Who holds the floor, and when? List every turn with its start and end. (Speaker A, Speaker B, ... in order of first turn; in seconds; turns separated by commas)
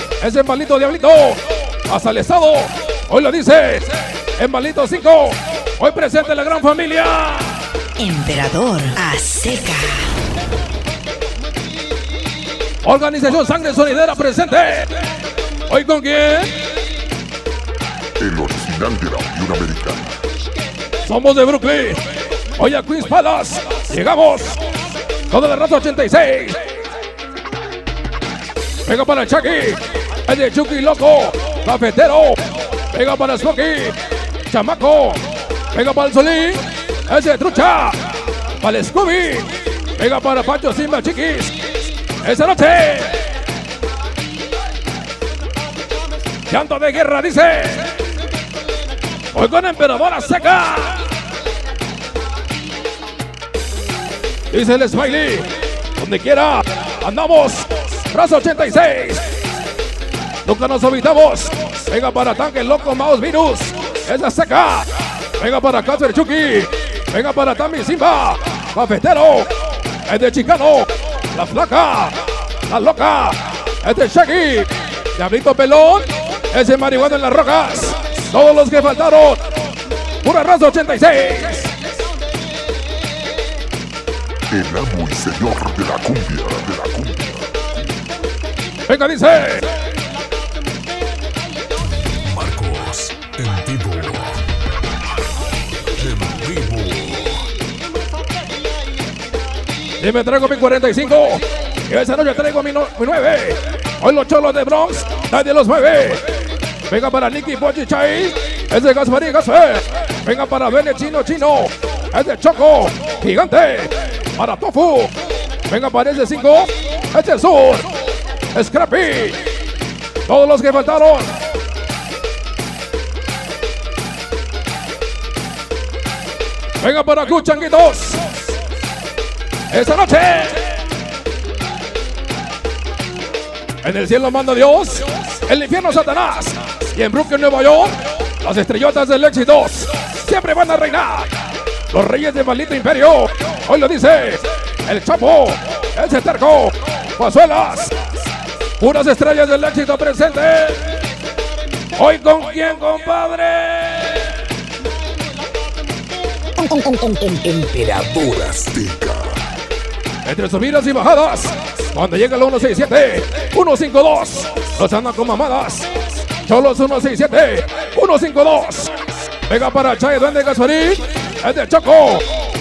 Speaker A: 0.2-7.6, Speaker B: 8.0-10.1, Speaker A: 12.8-15.1, Speaker A: 15.6-16.6, Speaker C: 18.2-20.1, Speaker A: 21.0-24.6, Speaker A: 25.2-26.7, Speaker A: 28.8-43.2, Speaker A: 46.5-48.1, Speaker A: 49.2-51.1, Speaker A: 54.5-59.3, Speaker A: 60.4-69.5, Speaker A: 70.0-79.4, Speaker A: 80.2-81.8, Speaker C: 84.5-87.6, Speaker A: 88.8-89.7, Speaker C: 92.2-94.4, Speaker D: 92.4-93.7, Speaker C: 95.9-97.3, Speaker A: 100.0-106.3, Speaker A: 106.9-117.9, Speaker A: 118.5-119.4, Speaker A: 120.2-121.4, Speaker A: 126.8-128.3, Speaker A: 129.7-130.7, Speaker A: 133.8-141.3, Speaker A: 141.9-147.9, Speaker A: 148.8-150.9, Speaker A: 151.9-154.3, Speaker D: 156.6-158.9, Speaker C: 158.7-159.2, Speaker A: 160.2-172.4